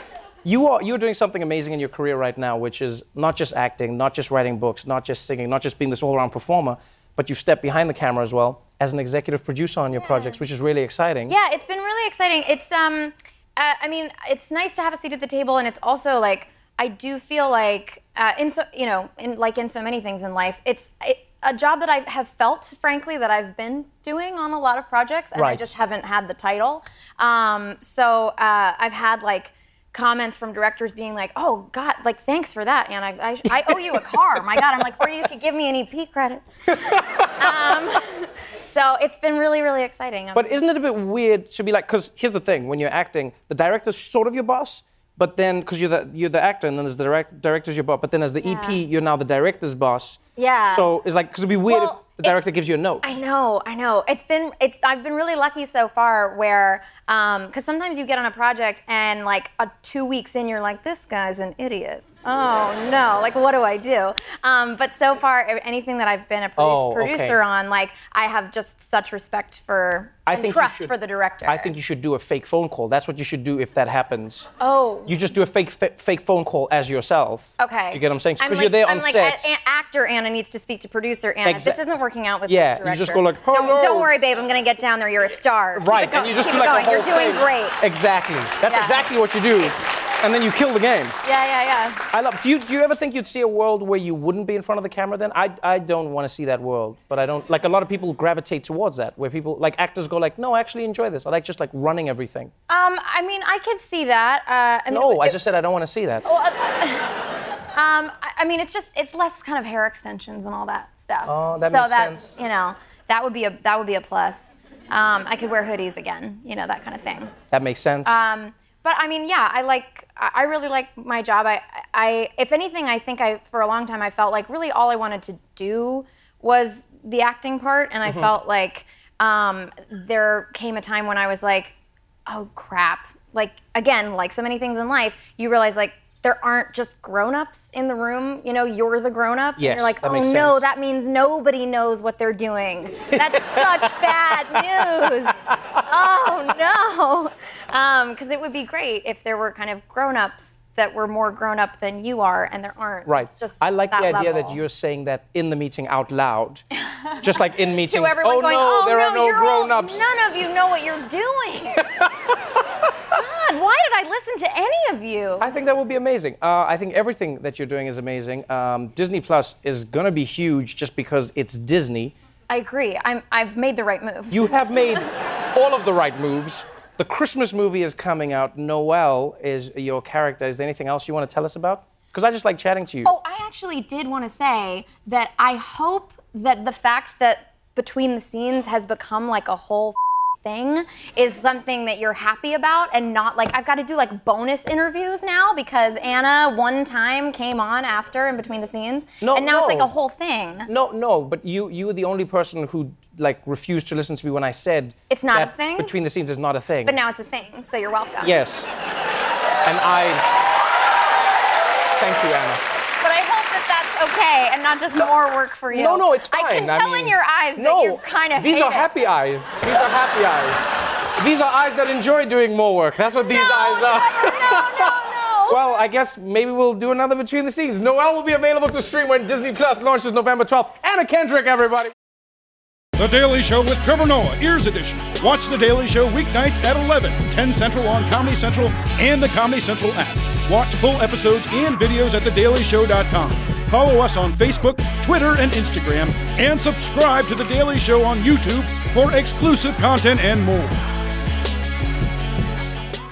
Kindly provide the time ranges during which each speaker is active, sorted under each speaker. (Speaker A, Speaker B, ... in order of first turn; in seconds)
Speaker A: 0.4-11.3, 25.3-25.7, 36.9-37.6, 40.3-50.2, 50.7-53.1, 66.6-67.4, 70.3-70.9, 71.5-74.5, 75.0-79.5, 81.4-81.8, 82.5-84.1, 85.7-91.2, 92.1-102.5, 104.9-106.2, 111.2-112.4, 117.5-118.2, 128.0-128.3, 139.6-140.7, 143.1-144.6, 153.1-156.6, 157.2-160.1, 165.4-172.1, 174.3-183.1, 199.2-199.9, 200.7-207.0, 208.2-208.7, 209.6-210.2, 212.0-212.6, 215.7-220.7, 221.2-224.9, 225.5-231.9
Speaker B: 9.9-10.4, 11.3-40.6, 48.4-48.8, 50.4-50.9, 51.6-52.4, 53.0-71.7, 74.6-75.2, 77.6-87.8, 88.6-89.1, 91.2-92.0, 102.7-105.4, 106.2-107.2, 107.7-117.3, 118.0-131.7, 132.3-154.6, 157.0-162.0, 163.1-165.5, 172.5-174.6, 183.0-200.7, 205.1-205.9, 206.8-208.4, 213.0-218.9, 223.3-225.6
Speaker C: 233.0-250.8